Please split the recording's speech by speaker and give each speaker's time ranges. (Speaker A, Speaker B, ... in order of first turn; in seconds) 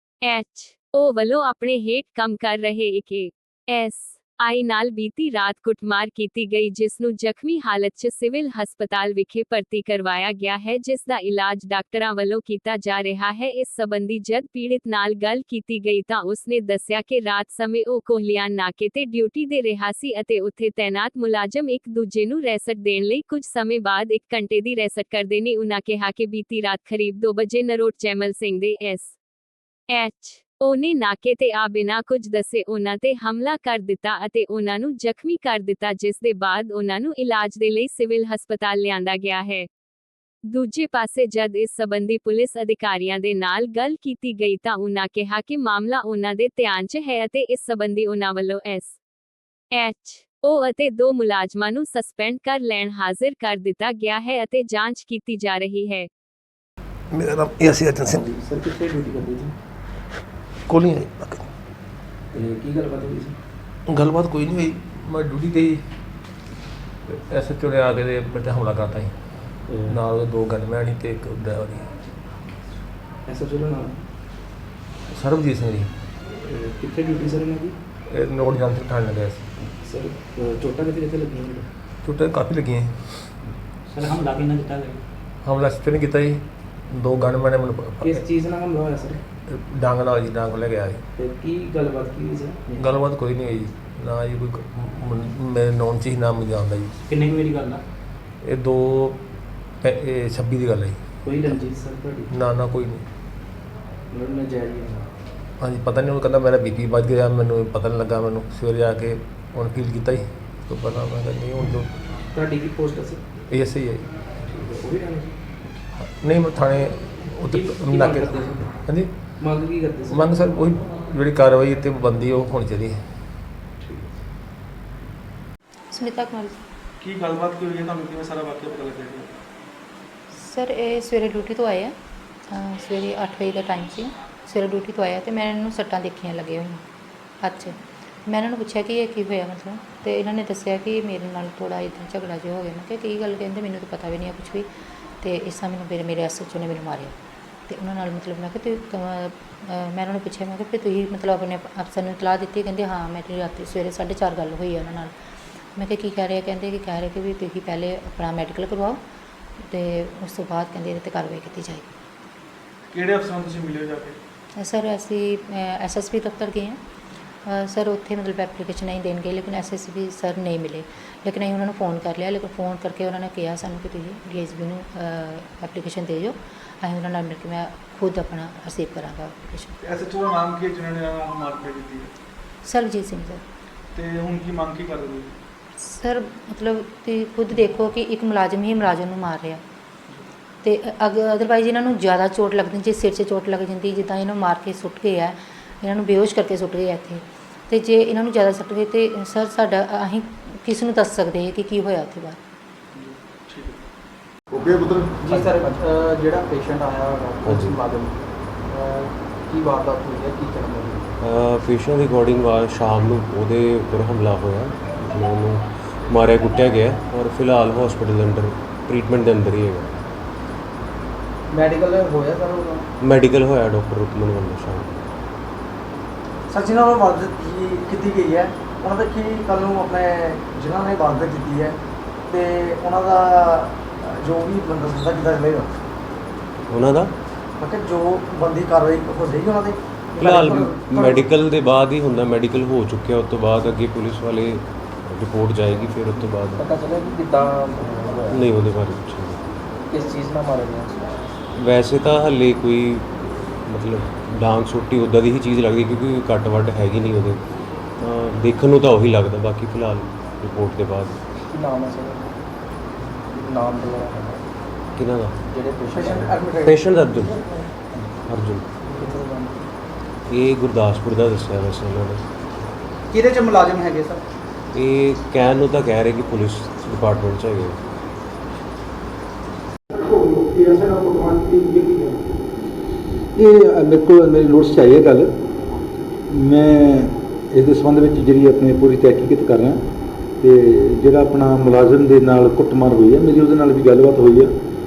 Speaker A: 0.2-29.1, 29.9-39.7, 40.5-49.0, 49.7-56.1
Speaker B: 57.1-58.2, 60.7-61.5, 63.9-65.8, 67.1-72.1, 75.1-75.9, 78.1-79.5, 82.0-83.4, 85.4-88.2, 89.5-91.0, 92.8-97.0, 98.4-99.2, 99.8-101.1, 102.3-103.1, 105.6-111.9, 113.5-114.1, 116.0-119.4, 120.1-123.0
Speaker C: 58.1-59.5, 62.3-63.4, 69.7-70.0, 73.3-74.0, 76.4-77.8, 79.7-81.7, 88.0-89.2, 91.2-92.8, 101.2-102.3, 104.1-105.1, 112.3-113.2, 114.4-115.4, 117.5-118.7, 119.4-120.3, 123.8-124.2, 205.3-205.7, 246.6-248.4, 249.9-251.0, 261.5-262.3, 263.3-264.4, 265.5-266.5, 268.9-269.6
Speaker D: 83.9-85.0, 97.1-97.8
Speaker E: 125.9-126.7, 130.3-131.9, 132.5-136.8, 137.4-144.7, 145.2-147.2, 147.7-155.1, 155.8-159.0, 159.6-161.9, 164.6-166.8, 167.4-179.8, 182.6-183.4, 185.8-189.6, 190.6-202.4
Speaker F: 127.0-129.3, 162.9-164.2, 179.8-182.1, 183.9-185.3, 202.9-203.8
Speaker G: 204.6-205.6, 206.2-206.8, 207.3-207.9, 221.5-222.9, 226.5-235.7, 237.6-241.3, 265.9-266.8
Speaker H: 207.4-207.8, 211.2-220.0, 223.0-225.0, 236.7-237.1, 240.2-246.7, 248.3-249.6, 251.5-257.4, 258.0-261.2, 265.0-265.4, 266.6-267.5, 268.3-268.6, 270.3-272.2, 274.7-277.8
Speaker I: 283.4-285.3, 286.3-289.8, 290.4-294.5